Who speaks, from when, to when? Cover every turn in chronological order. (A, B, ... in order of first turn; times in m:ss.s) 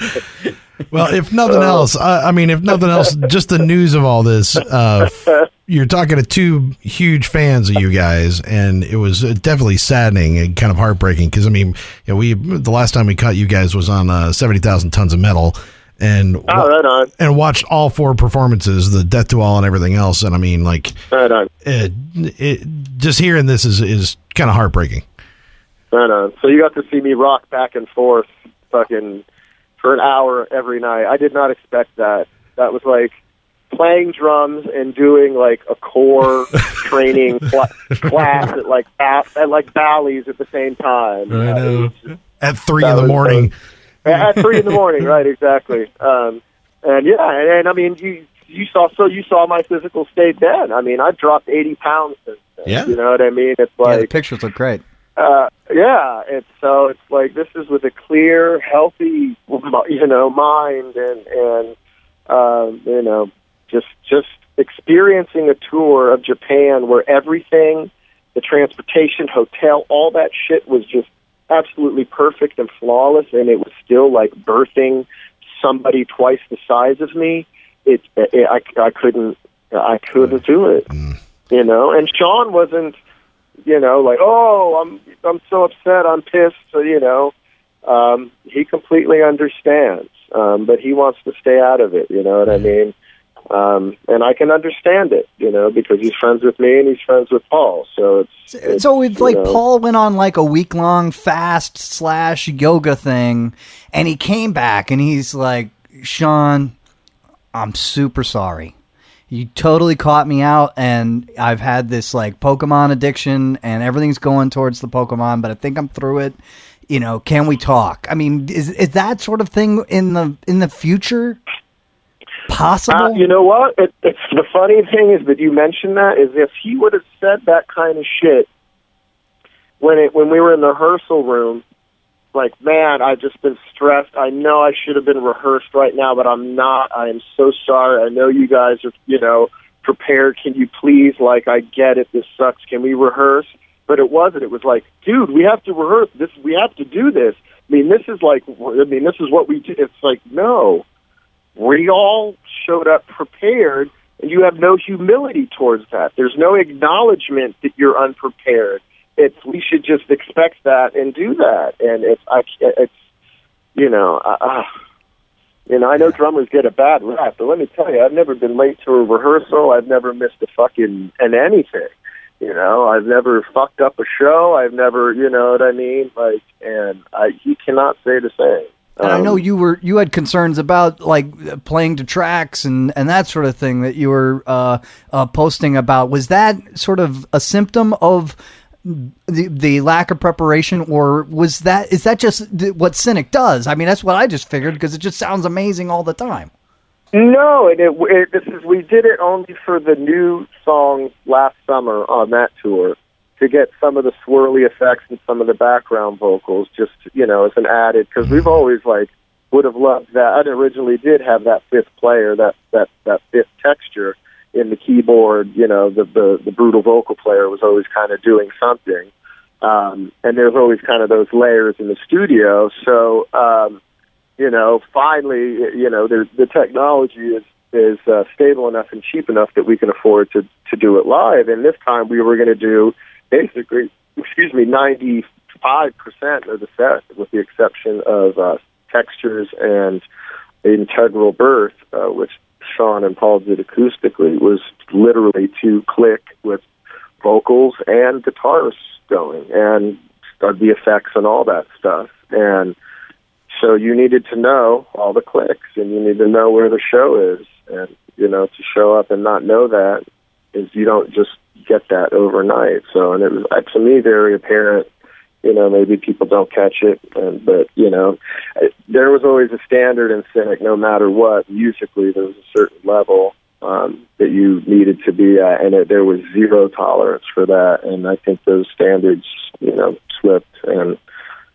0:00.9-0:21.0 A
0:01.5-0:01.9 B
0:16.5-0:17.1 B
0:21.1-0:21.5 B
0:21.6-0:25.0 A
0:25.9-0:29.2 B
0:29.8-0:33.1 B
0:33.7-0:42.1 B
0:41.3-0:43.5 A
0:42.8-0:43.5 B
0:44.0-0:54.1 B
0:44.1-0:44.8 A
0:52.6-0:52.9 A
0:53.8-0:54.8 C
0:55.2-1:01.7 B
1:02.3-1:20.9 B
1:20.9-1:21.2 A
1:21.5-1:22.9 B
1:23.6-1:27.3 B
1:27.8-1:32.9 B
1:33.5-1:39.6 B
1:38.5-1:46.7 C
1:47.5-1:48.7 C
1:49.3-1:56.4 C
1:56.9-2:01.4 C
2:02.5-2:03.2 C
2:02.9-2:08.5 B
2:09.8-2:11.6 B
2:12.3-2:30.8 B
2:31.6-2:42.9 B
2:43.8-2:44.6 B
2:45.7-2:59.4 B
2:59.0-3:16.5 C
3:17.1-3:39.1 B
3:39.6-3:43.8 B
3:44.4-4:00.0 B
4:00.6-4:06.6 B
4:07.2-4:12.7 B
4:13.5-4:20.0 B
4:20.5-4:24.9 B
4:25.4-4:41.0 B